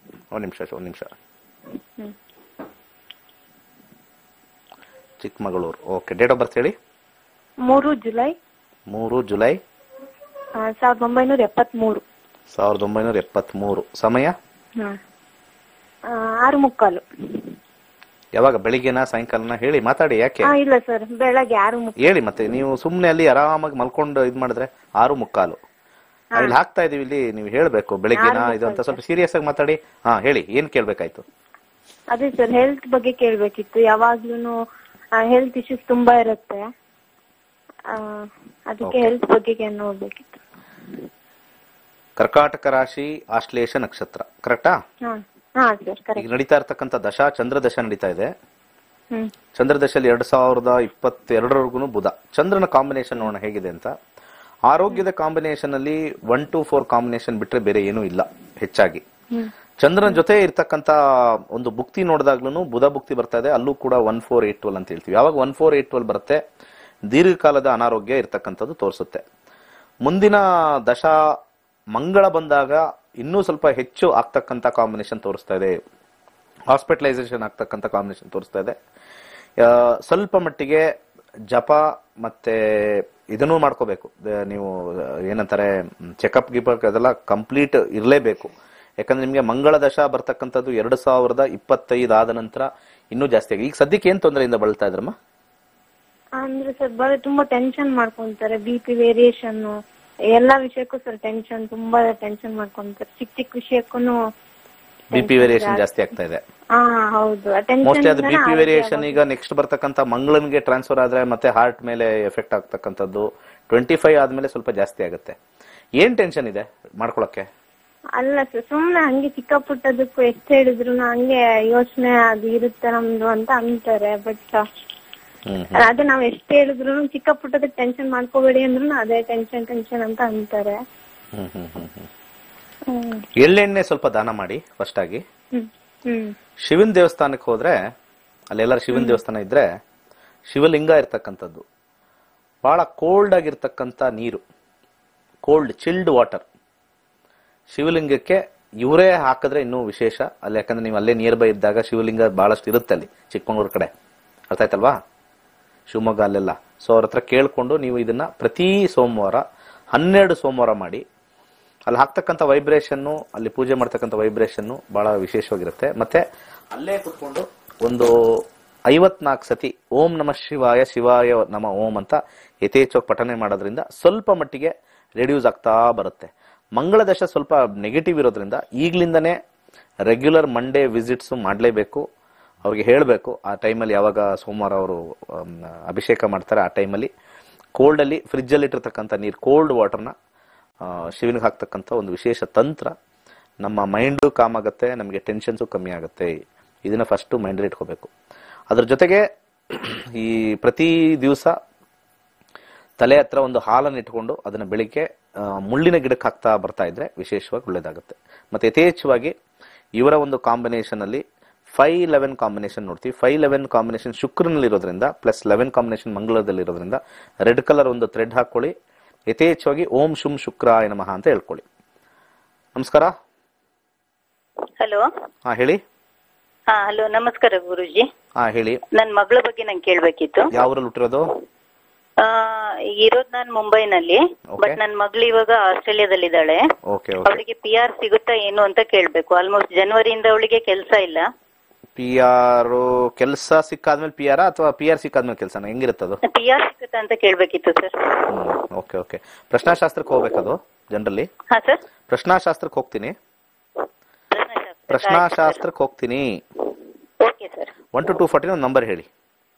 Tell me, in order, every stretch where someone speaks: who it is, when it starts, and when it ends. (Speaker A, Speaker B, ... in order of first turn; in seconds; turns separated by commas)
Speaker A: 0.3-1.1, Speaker A: 5.2-6.8, Speaker B: 7.7-8.4, Speaker A: 8.9-9.6, Speaker B: 10.6-12.0, Speaker A: 12.5-14.3, Speaker B: 16.1-17.5, Speaker A: 18.4-20.5, Speaker B: 20.4-22.0, Speaker A: 22.0-25.6, Speaker A: 26.4-31.2, Speaker B: 28.1-29.0, Speaker B: 32.1-34.6, Speaker B: 35.2-36.6, Speaker B: 37.9-40.4, Speaker A: 38.8-39.1, Speaker A: 42.2-44.8, Speaker B: 45.0-46.3, Speaker A: 46.2-48.3, Speaker A: 49.5-54.0, Speaker A: 54.7-59.0, Speaker A: 59.8-66.4, Speaker A: 67.1-69.2, Speaker A: 70.0-71.2, Speaker A: 71.9-75.8, Speaker A: 76.7-78.8, Speaker A: 79.6-80.9, Speaker A: 81.5-95.2, Speaker B: 96.4-99.8, Speaker B: 100.3-104.2, Speaker B: 105.1-105.8, Speaker A: 105.1-106.4, Speaker B: 106.8-109.2, Speaker A: 107.8-115.4, Speaker A: 116.0-117.5, Speaker B: 118.2-124.6, Speaker A: 125.5-125.8, Speaker B: 125.8-130.8, Speaker A: 131.3-132.1, Speaker B: 132.9-133.3, Speaker A: 133.4-135.2, Speaker B: 135.5-136.3, Speaker A: 136.6-137.8, Speaker A: 138.5-139.7, Speaker A: 140.5-141.6, Speaker A: 142.6-144.4, Speaker A: 145.4-146.4, Speaker A: 147.7-153.9, Speaker A: 154.5-155.0, Speaker A: 155.9-161.0, Speaker A: 161.9-179.4, Speaker A: 180.1-182.1, Speaker A: 182.6-187.1, Speaker A: 187.8-190.1, Speaker A: 190.8-192.9, Speaker A: 193.6-198.1, Speaker A: 198.7-201.6, Speaker A: 203.0-209.3, Speaker A: 210.0-218.7, Speaker A: 219.3-221.6, Speaker A: 222.8-223.1, Speaker A: 225.5-225.8, Speaker C: 226.7-228.1, Speaker A: 228.4-228.8, Speaker C: 228.9-230.5, Speaker A: 230.5-231.3, Speaker C: 232.2-236.6, Speaker A: 234.5-234.8, Speaker A: 236.9-237.4, Speaker C: 237.2-241.3, Speaker A: 242.0-246.2, Speaker C: 246.2-248.4, Speaker A: 248.3-251.3, Speaker C: 251.5-251.8, Speaker A: 252.1-253.2, Speaker C: 254.3-255.6, Speaker A: 254.9-256.4, Speaker C: 257.2-257.7, Speaker A: 257.9-259.1